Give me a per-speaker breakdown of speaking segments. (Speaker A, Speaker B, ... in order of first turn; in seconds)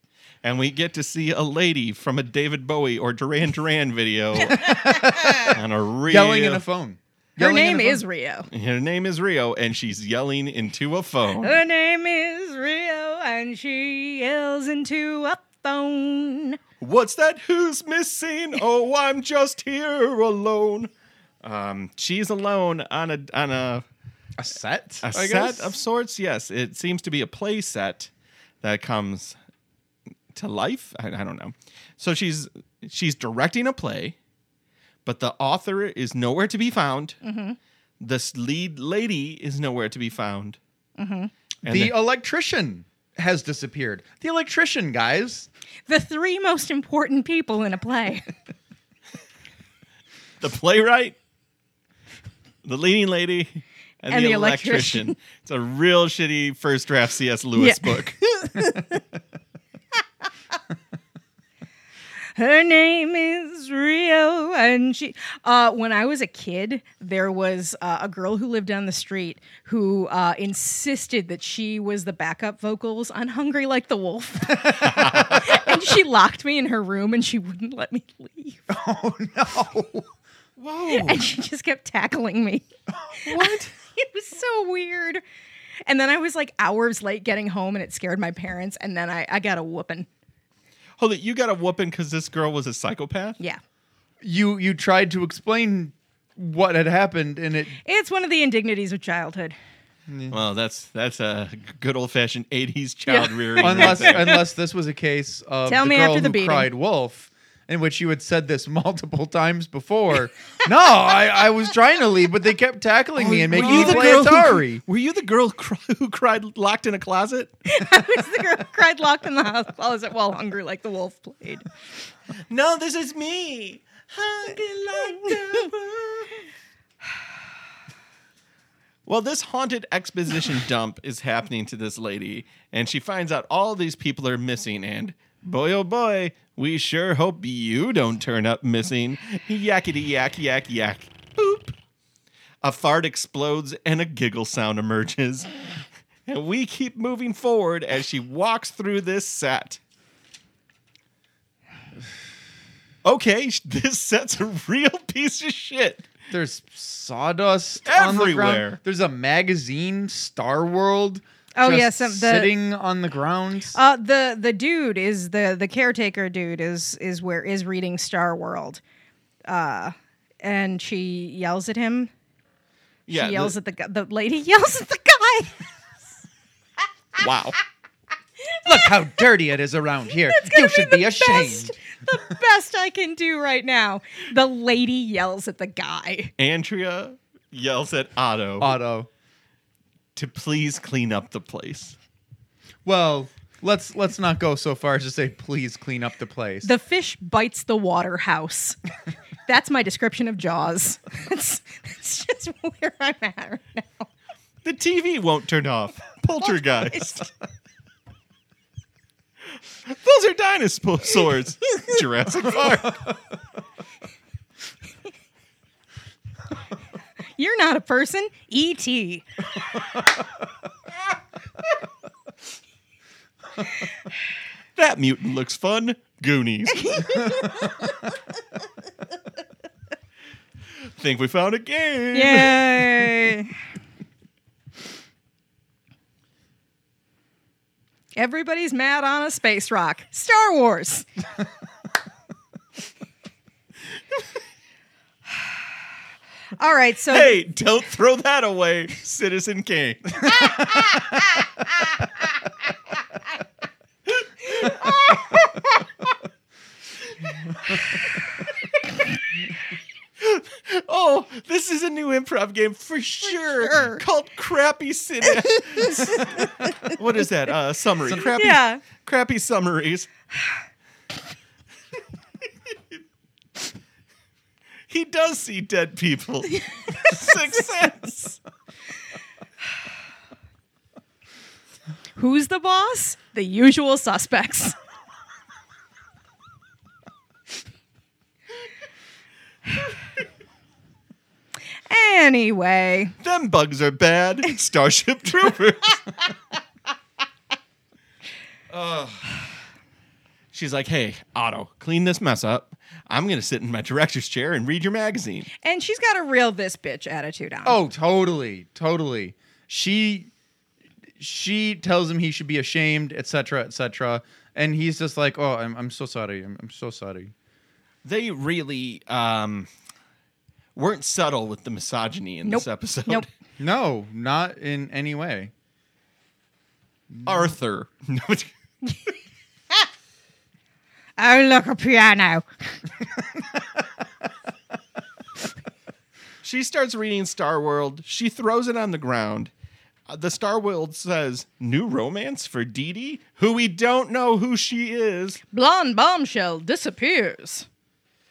Speaker A: 0.4-6.6, 8.5-11.6, 16.8-20.9, 21.4-23.8, 25.0-28.1, 28.6-29.4, 30.3-34.1, 35.0-37.2, 38.0-40.6, 41.6-41.9, 50.4-51.1, 52.6-58.2, 74.9-75.4, 80.6-81.2, 91.0-93.4, 100.3-104.4, 113.2-117.5, 122.5-126.4, 129.1-141.8, 142.6-145.5, 146.2-149.8, 153.0-156.1, 157.8-158.8, 173.1-173.5, 177.2-177.6, 186.4-188.8, 190.2-191.9, 204.6-207.3, 209.8-213.1, 224.8-227.3, 230.9-233.1, 247.1-251.3, 254.4-255.3, 260.2-270.1, 274.9-278.4, 293.2-296.2, 298.7-299.2, 300.5-305.5, 318.0-319.7, 320.7-323.2, 327.2-328.5, 336.4-339.5, 340.1-345.4
Speaker B: 4.4-5.5, 7.4-8.5, 11.4-16.6, 37.2-37.6, 41.0-41.3, 45.9-48.3, 54.1-55.1, 57.6-59.0, 62.4-78.7, 80.9-85.2, 85.8-90.1, 97.8-99.5, 103.1-104.4, 105.7-106.7, 113.5-114.2, 117.7-121.7, 161.5-162.5, 163.7-168.8, 169.5-172.1, 173.1-175.7, 178.5-178.9, 180.2-186.3, 196.6-198.8, 199.4-204.1, 206.4-207.2, 217.3-219.2, 226.8-227.8, 232.1-233.5, 238.2-241.1, 246.6-247.3, 263.2-264.0, 265.6-267.0, 268.1-268.8, 282.1-284.8, 291.9-293.1, 305.6-307.8, 322.4-323.2, 331.2-332.4, 345.5-347.7
Speaker C: 4.6-5.5, 6.1-8.0, 24.4-25.8, 41.6-45.5, 74.8-75.1, 78.7-80.1, 83.2-83.6, 94.2-97.8, 100.1-100.4, 103.6-114.8, 156.3-163.8, 178.6-181.7, 188.6-189.1, 192.8-196.7, 307.6-310.3, 311.2-317.3, 323.6-325.5, 327.1-327.5